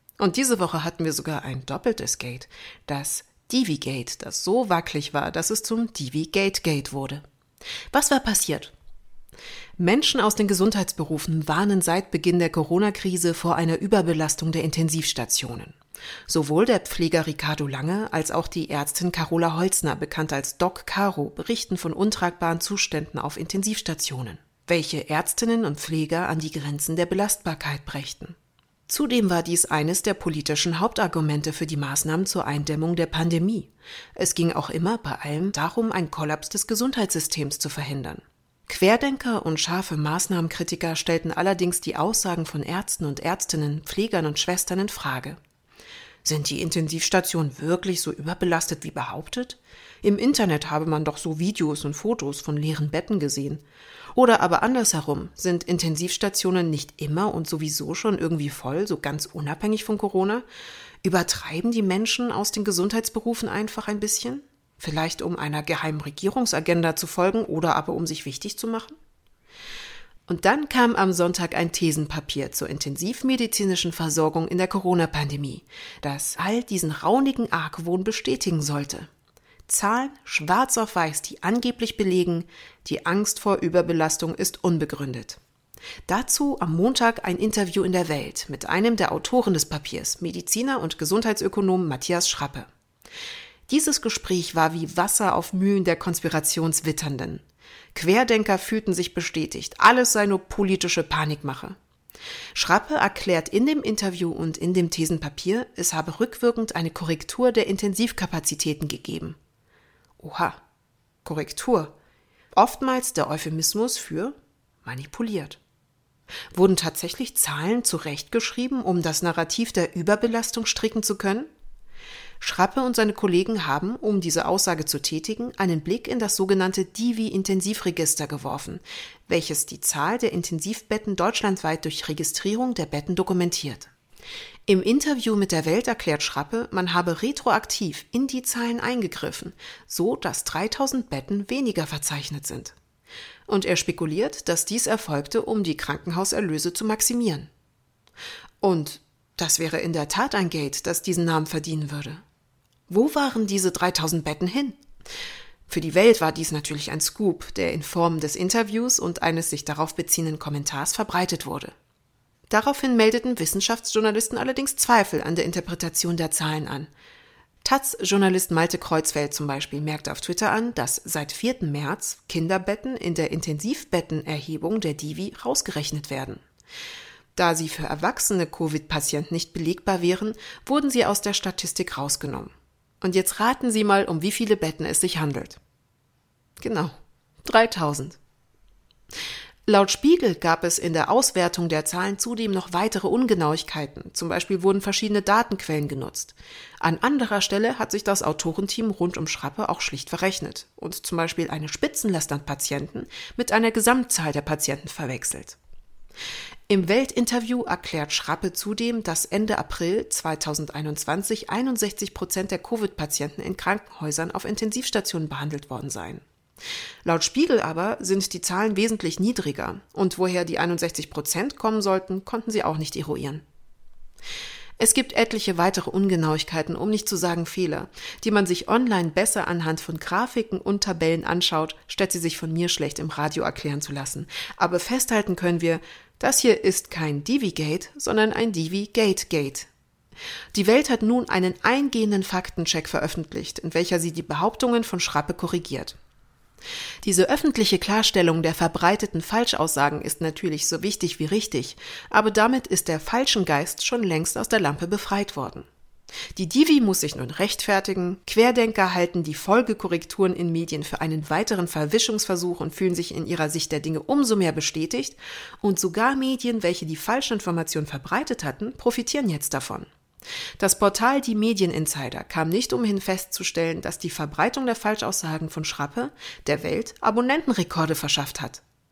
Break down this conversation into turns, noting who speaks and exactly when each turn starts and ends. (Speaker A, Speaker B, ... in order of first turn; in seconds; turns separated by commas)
Speaker A: 0.2-7.2, Speaker A: 7.9-8.7, Speaker A: 9.8-15.8, Speaker A: 16.3-28.4, Speaker A: 28.9-45.4, Speaker A: 46.2-53.6, Speaker A: 54.1-60.4, Speaker A: 61.0-69.0, Speaker A: 70.3-79.1, Speaker A: 79.7-85.4, Speaker A: 86.1-92.7, Speaker A: 93.7-101.8, Speaker A: 102.5-109.4, Speaker A: 110.2-110.6, Speaker A: 111.2-111.9, Speaker A: 112.5-115.6, Speaker A: 116.5-121.5, Speaker A: 122.4-133.9, Speaker A: 134.7-142.8, Speaker A: 143.5-147.5, Speaker A: 148.6-152.2, Speaker A: 152.9-154.8, Speaker A: 155.7-161.7, Speaker A: 162.5-166.9, Speaker A: 167.6-176.4, Speaker A: 177.4-185.6, Speaker A: 186.6-188.2, Speaker A: 189.7-205.6, Speaker A: 206.7-216.2, Speaker A: 217.1-223.4, Speaker A: 224.8-239.7, Speaker A: 240.5-246.0, Speaker A: 247.0-255.7, Speaker A: 256.4-269.9, Speaker A: 270.6-278.6